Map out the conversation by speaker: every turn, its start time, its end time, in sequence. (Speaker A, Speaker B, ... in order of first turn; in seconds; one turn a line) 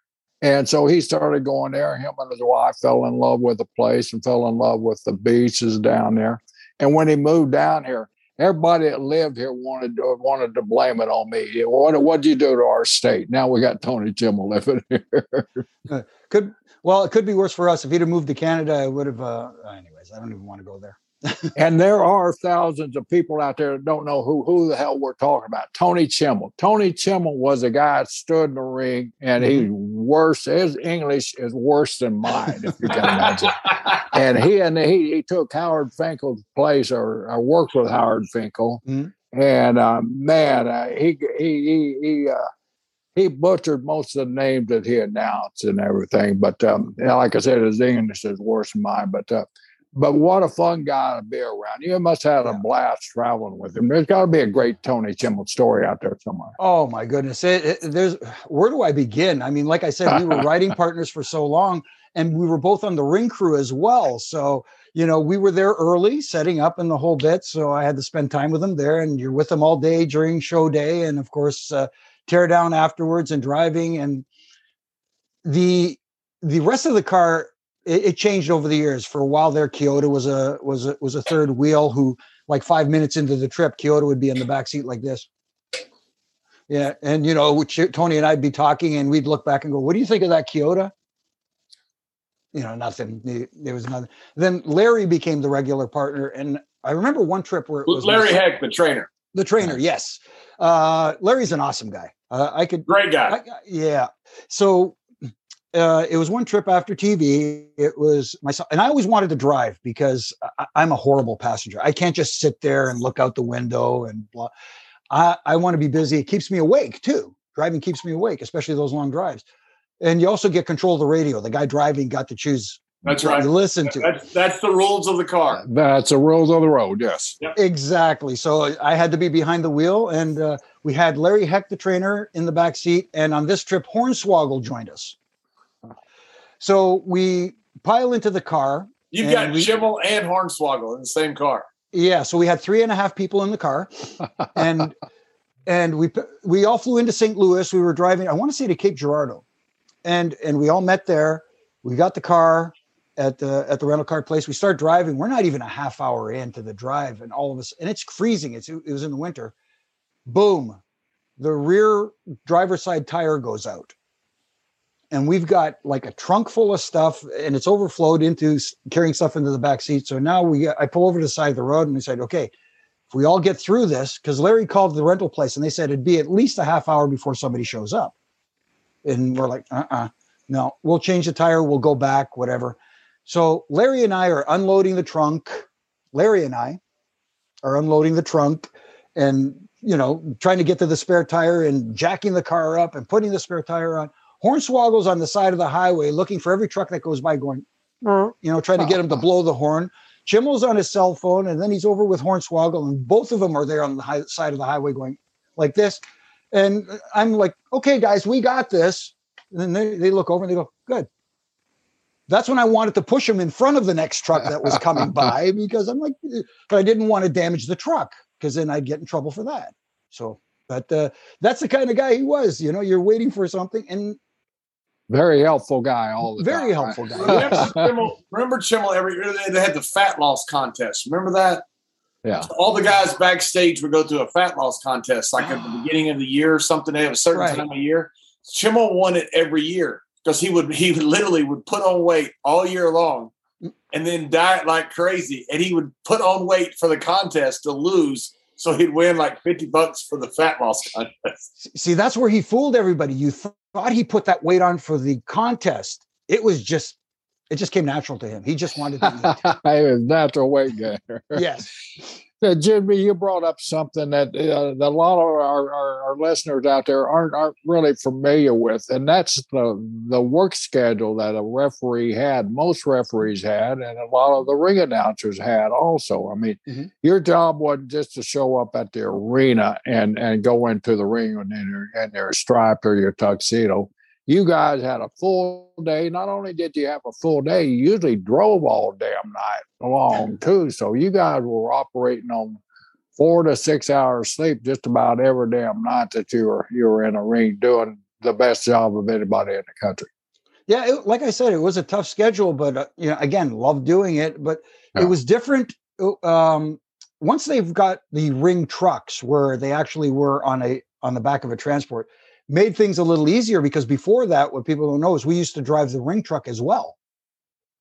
Speaker A: 0.4-15.7
Speaker B: 15.9-21.5
Speaker A: 21.5-42.4
Speaker B: 29.4-29.6
Speaker C: 32.8-34.0
Speaker A: 43.1-56.5
Speaker B: 56.6-74.2
Speaker B: 75.4-85.3
Speaker B: 86.7-90.9
Speaker B: 92.5-98.4
Speaker C: 97.9-99.1
Speaker B: 99.3-105.0
Speaker C: 102.9-103.4
Speaker B: 105.7-114.5
Speaker B: 115.1-119.4
Speaker B: 120.0-124.1
Speaker C: 123.0-125.6
Speaker A: 125.6-127.4
Speaker B: 127.5-135.2
Speaker B: 136.6-139.7
Speaker C: 139.1-141.6
Speaker B: 141.9-144.9
Speaker B: 145.7-149.4
Speaker B: 150.0-159.5
Speaker B: 160.2-160.8
Speaker B: 161.4-163.9
Speaker B: 165.1-172.5
Speaker B: 173.1-178.1
Speaker B: 179.0-186.8
Speaker B: 187.6-206.0
Speaker B: 206.5-211.1
Speaker B: 212.3-224.2
Speaker A: 225.1-227.9
Speaker B: 226.2-227.7
Speaker C: 227.2-231.6
Speaker C: 232.4-243.3
Speaker B: 237.3-237.6
Speaker C: 243.9-251.5
Speaker B: 251.6-257.0
Speaker B: 257.5-259.4
Speaker A: 259.0-261.5
Speaker B: 261.3-261.7
Speaker A: 262.4-292.6
Speaker A: 293.2-300.1
Speaker B: 300.7-317.0